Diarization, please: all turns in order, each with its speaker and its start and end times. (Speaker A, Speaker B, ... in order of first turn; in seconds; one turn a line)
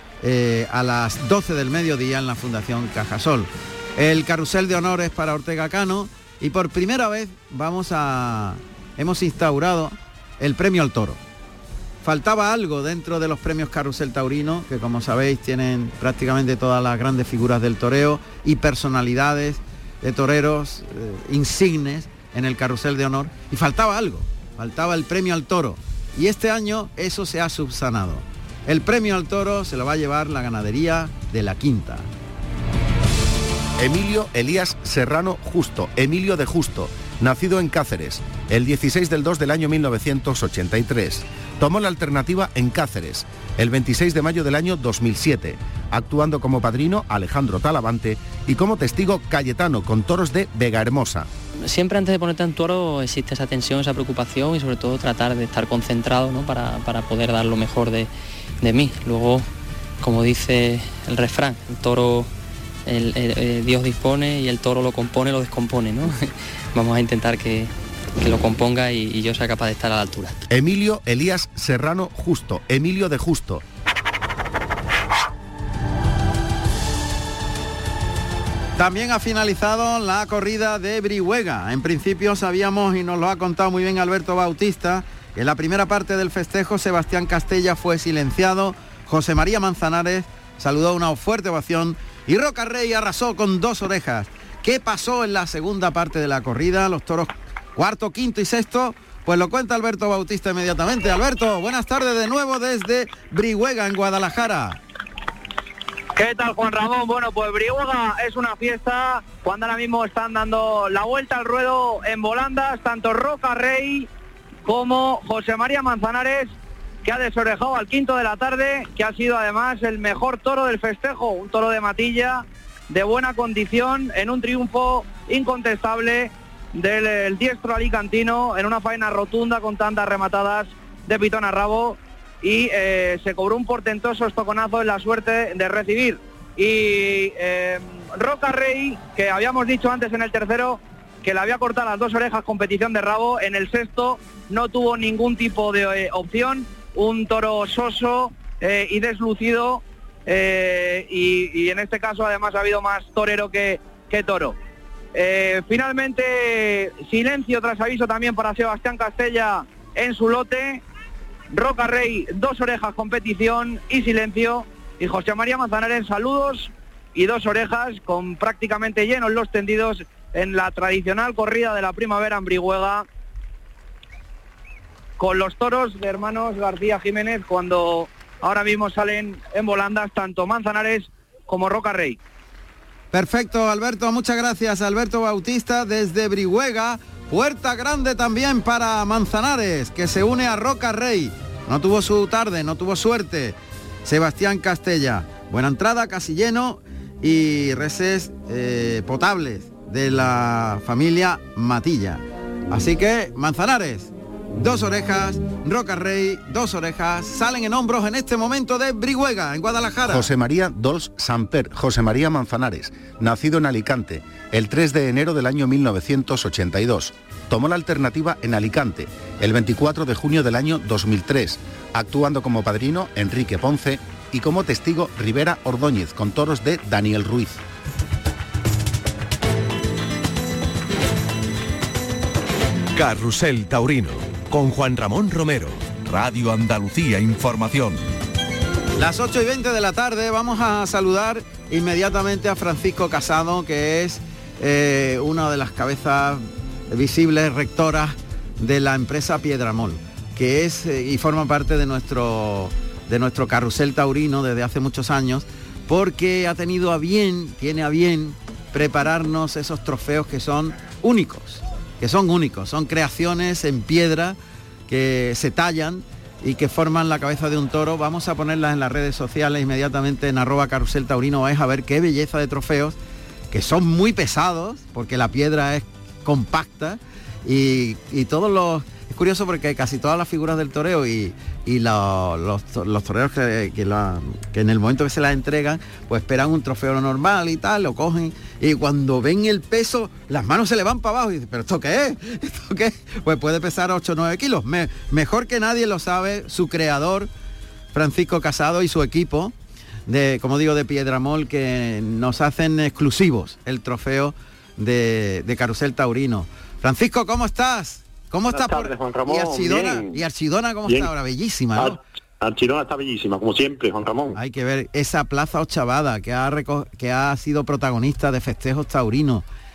Speaker A: 0.2-11.2
Speaker A: 12.0-32.1
Speaker B: 33.8-51.3
Speaker C: 51.6-58.1
Speaker C: 58.6-59.5
Speaker C: 60.0-62.3
Speaker C: 62.9-70.4
Speaker B: 70.5-73.6
Speaker A: 78.8-104.8
Speaker D: 106.1-114.1
Speaker D: 114.6-154.6
Speaker D: 155.1-160.8
Speaker D: 161.5-173.1
Speaker D: 175.2-182.2
Speaker A: 183.1-210.3
Speaker B: 210.1-227.6
Speaker E: 232.9-238.0
Speaker A: 238.9-273.0
Speaker A: 273.5-297.3
Speaker A: 297.9-299.5
Speaker A: 300.1-312.0
Speaker F: 308.5-310.2
Speaker F: 310.9-311.1
Speaker F: 311.7-314.4
Speaker A: 314.3-319.4